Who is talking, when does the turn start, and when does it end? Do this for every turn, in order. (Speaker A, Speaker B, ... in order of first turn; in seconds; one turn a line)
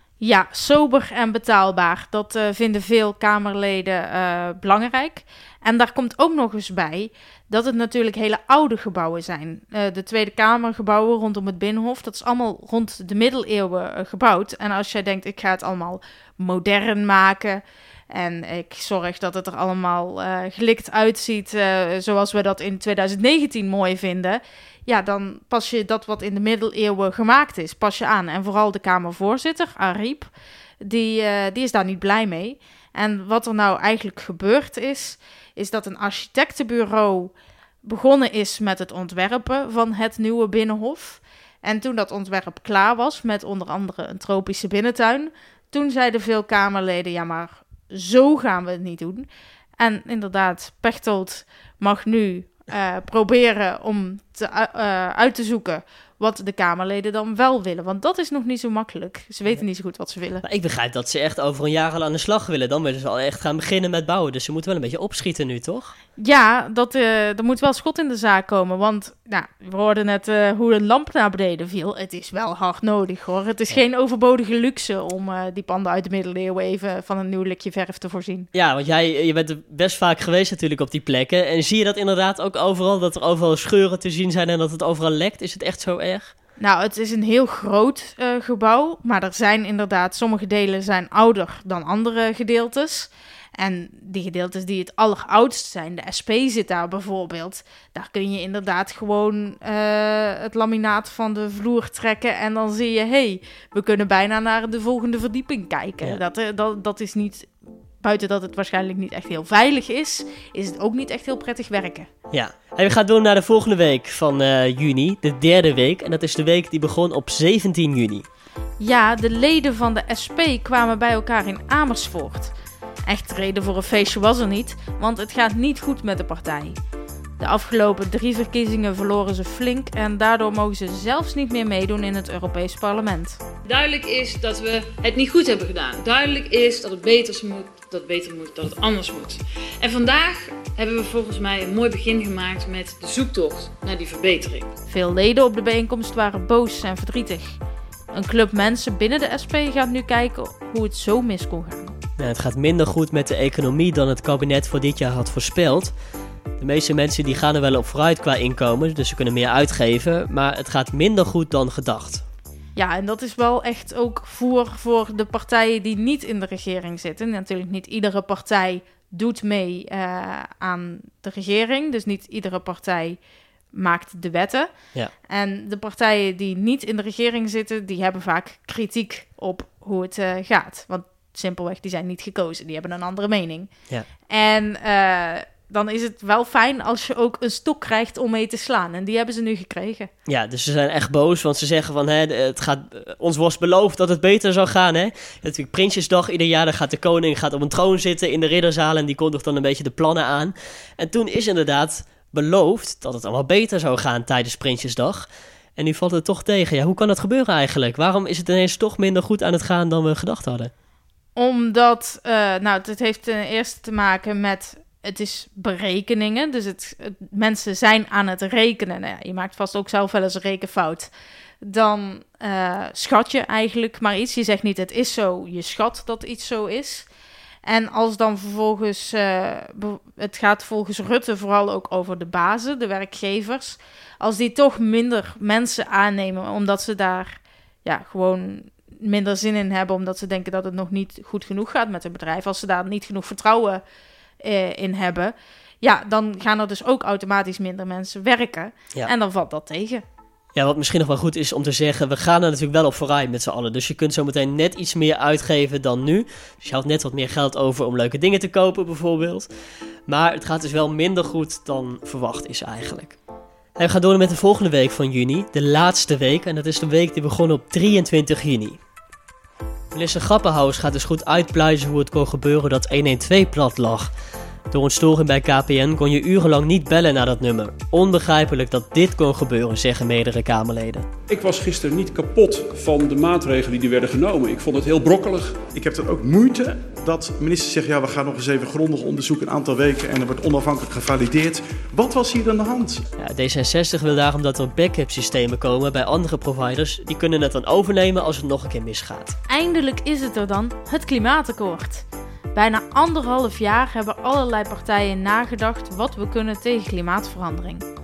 Speaker A: 0.2-49.3
Speaker A: 49.8-60.4
Speaker B: 60.4-65.9
Speaker A: 66.2-78.5
Speaker B: 78.5-86.3
Speaker A: 86.6-107.5
Speaker A: 108.0-112.1
Speaker B: 112.3-118.2
Speaker A: 118.8-122.5
Speaker A: 123.1-126.8
Speaker A: 127.4-133.4
Speaker C: 133.7-144.7
Speaker A: 144.9-147.6
Speaker A: 148.1-151.9
Speaker B: 152.2-155.9
Speaker B: 156.6-162.2
Speaker A: 162.8-173.2
Speaker A: 173.8-174.7
Speaker A: 175.3-183.7
Speaker A: 184.3-190.1
Speaker B: 190.3-210.7
Speaker A: 211.4-221.1
Speaker A: 221.6-227.1
Speaker A: 227.7-243.8
Speaker A: 244.4-250.0
Speaker B: 250.6-259.5
Speaker B: 260.1-263.2
Speaker B: 263.8-268.8
Speaker B: 269.9-274.1
Speaker B: 274.7-281.1
Speaker D: 281.3-285.7
Speaker E: 285.8-293.0
Speaker B: 293.2-299.4
Speaker A: 299.5-307.8